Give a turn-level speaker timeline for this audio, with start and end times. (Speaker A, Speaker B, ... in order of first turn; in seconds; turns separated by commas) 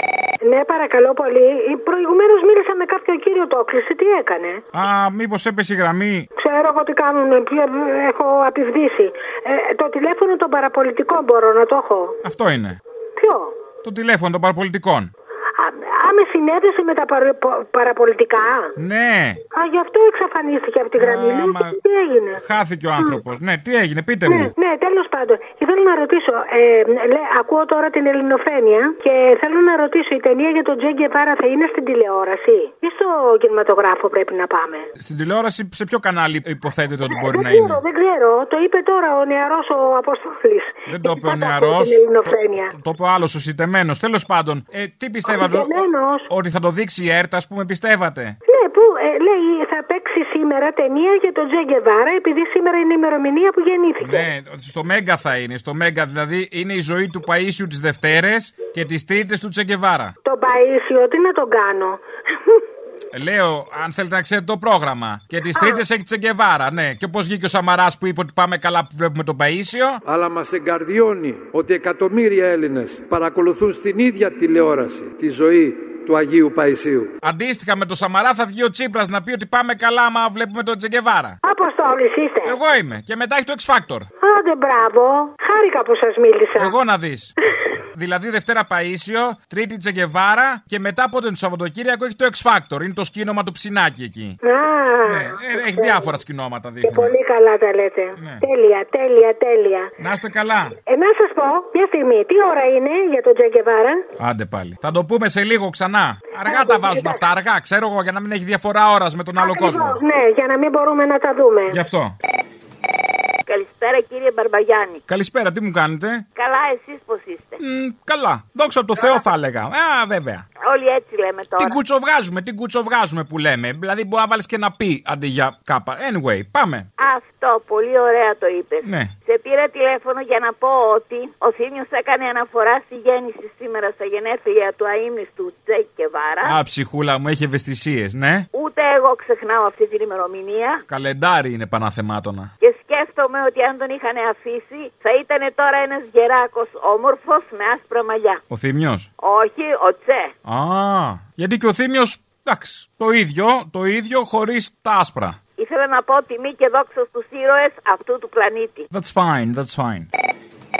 Speaker A: 0.5-4.6, Speaker B: 4.7-6.3, Speaker A: 6.4-12.2, Speaker B: 12.2-12.8, Speaker A: 13.2-13.5, Speaker B: 13.8-15.1, Speaker A: 15.6-18.7, Speaker B: 18.8-19.4, Speaker A: 19.5-22.4, Speaker B: 21.0-21.8, Speaker B: 22.4-24.5, Speaker A: 24.2-34.9, Speaker B: 35.0-37.8, Speaker A: 37.1-42.7, Speaker B: 40.9-42.0, Speaker B: 42.7-48.4, Speaker A: 45.3-46.3, Speaker A: 48.5-54.2, Speaker B: 54.0-60.1, Speaker A: 60.2-62.0, Speaker B: 63.1-70.0, Speaker C: 70.0-77.1, Speaker B: 77.2-81.4, Speaker A: 81.4-82.5, Speaker B: 82.4-84.1, Speaker A: 84.2-86.7, Speaker B: 86.6-87.3, Speaker B: 87.9-94.4, Speaker A: 94.4-96.0, Speaker B: 95.0-97.2, Speaker A: 96.8-99.9, Speaker B: 98.2-98.4, Speaker B: 100.0-100.7, Speaker A: 100.9-104.0, Speaker B: 104.2-110.0, Speaker A: 106.4-107.3, Speaker A: 109.4-111.8, Speaker B: 111.7-112.1, Speaker D: 113.5-115.0, Speaker B: 115.1-116.2, Speaker D: 116.3-117.6, Speaker B: 117.6-120.5, Speaker D: 120.6-121.8, Speaker B: 121.6-126.9, Speaker D: 127.0-136.6, Speaker B: 128.8-129.1, Speaker B: 136.4-138.5, Speaker D: 138.5-140.8, Speaker B: 140.9-142.5, Speaker D: 142.6-148.4, Speaker B: 148.5-149.1, Speaker D: 149.2-150.3, Speaker B: 150.4-155.4, Speaker D: 155.6-158.9, Speaker B: 158.9-160.1